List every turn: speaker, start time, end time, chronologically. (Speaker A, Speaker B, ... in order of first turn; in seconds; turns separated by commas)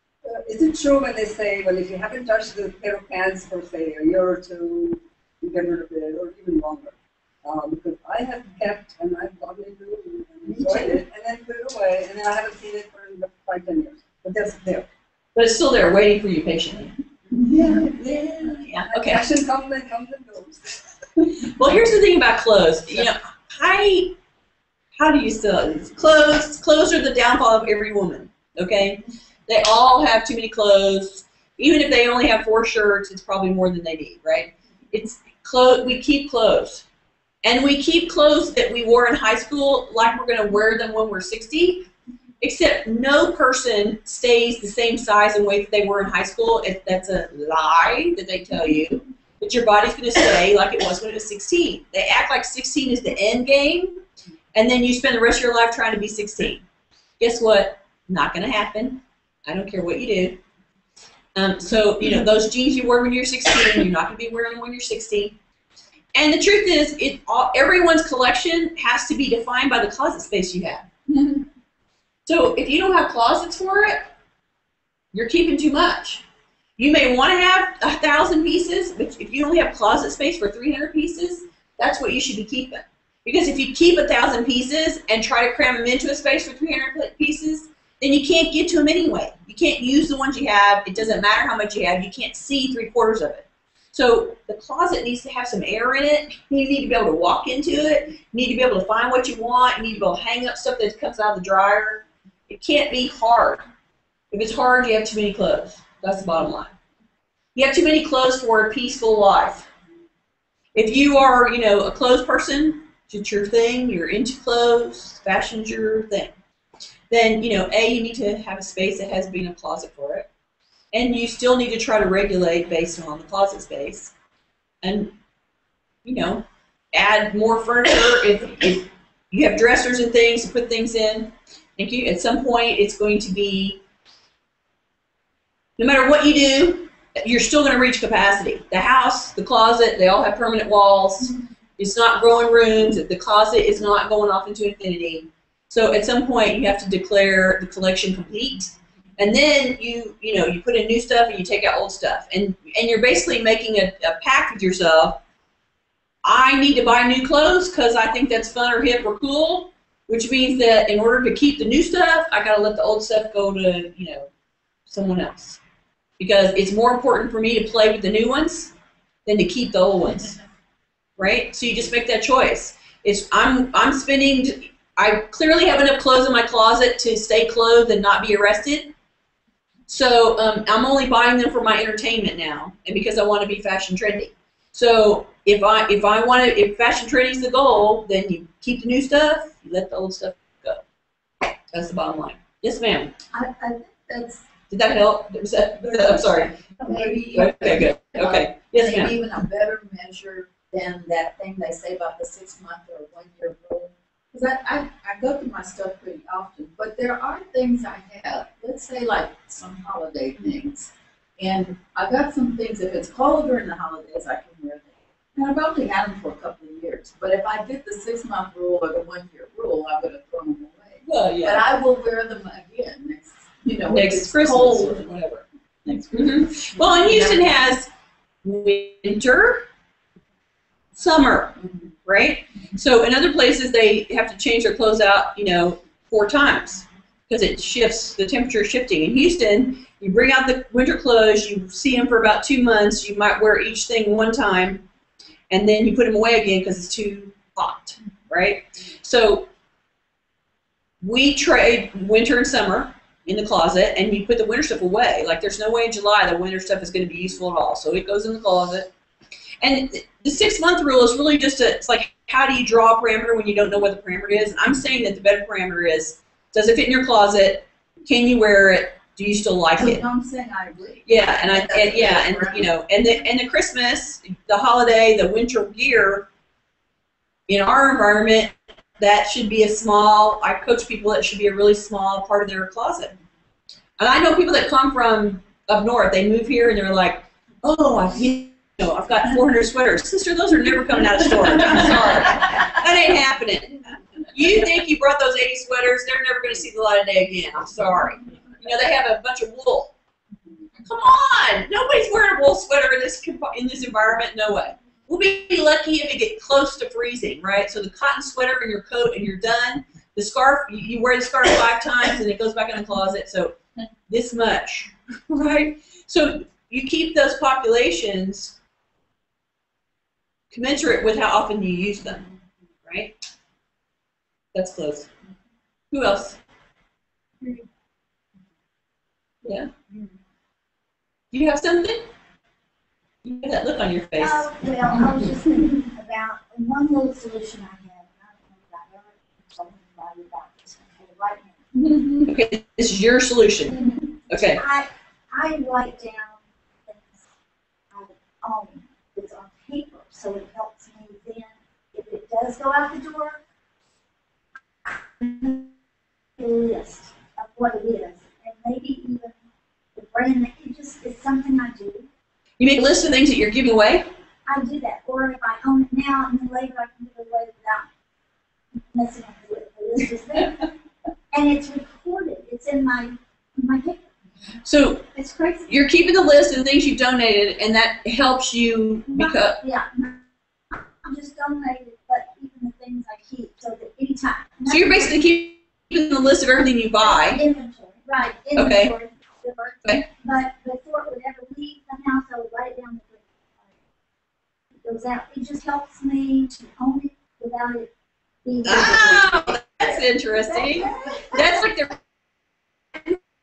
Speaker A: 0.2-14.8, Speaker B: 15.3-16.9, Speaker A: 17.3-20.8, Speaker B: 17.5-19.2, Speaker B: 21.2-24.1, Speaker B: 24.9-36.8, Speaker B: 37.4-41.9, Speaker B: 42.4-54.0, Speaker B: 54.5-56.6, Speaker B: 57.2-60.4, Speaker B: 61.3-65.4, Speaker B: 66.1-71.5, Speaker B: 72.2-74.1, Speaker B: 75.1-76.2, Speaker B: 76.8-103.6, Speaker B: 104.3-106.7, Speaker B: 107.5-109.7, Speaker B: 110.7-116.3, Speaker B: 117.1-120.3, Speaker B: 120.9-124.1, Speaker B: 124.8-125.1, Speaker B: 126.0-133.8, Speaker B: 135.8-155.2, Speaker B: 156.2-164.3, Speaker B: 164.9-165.6, Speaker B: 166.2-168.7, Speaker B: 169.2-170.3, Speaker B: 171.2-178.9, Speaker B: 179.9-190.8, Speaker B: 191.7-193.1, Speaker C: 193.3-194.4, Speaker B: 194.7-196.5, Speaker C: 195.8-225.0, Speaker D: 196.9-197.2, Speaker B: 197.2-199.1, Speaker B: 221.0-221.6, Speaker B: 223.9-227.9, Speaker C: 225.9-226.2, Speaker B: 228.4-229.7, Speaker B: 230.9-244.8, Speaker B: 245.5-249.5, Speaker B: 251.0-258.9, Speaker B: 259.6-270.0, Speaker C: 269.8-272.7, Speaker B: 271.0-276.3, Speaker B: 277.5-283.1, Speaker B: 284.0-293.8, Speaker B: 294.3-299.9, Speaker B: 300.8-313.6, Speaker B: 314.1-318.6, Speaker B: 320.5-322.3, Speaker B: 322.8-323.1, Speaker B: 324.5-325.1, Speaker B: 325.9-326.4, Speaker D: 327.4-327.7, Speaker B: 329.4-329.7, Speaker B: 331.3-332.0, Speaker B: 333.2-334.5, Speaker D: 334.2-342.0, Speaker B: 341.8-343.8, Speaker D: 343.7-347.2, Speaker B: 344.3-344.6, Speaker D: 347.9-353.4, Speaker D: 354.9-355.7, Speaker D: 356.4-359.4, Speaker D: 359.9-362.1, Speaker B: 362.6-364.1, Speaker D: 364.5-367.9, Speaker D: 368.9-370.7, Speaker D: 371.3-374.0, Speaker B: 374.6-375.1, Speaker D: 375.1-375.7, Speaker B: 375.7-379.6, Speaker D: 379.1-380.2, Speaker D: 380.7-385.2, Speaker B: 384.7-387.4, Speaker D: 387.0-393.7, Speaker B: 388.5-388.9, Speaker D: 394.8-397.9, Speaker D: 398.4-399.9, Speaker B: 398.6-402.0, Speaker D: 400.4-401.6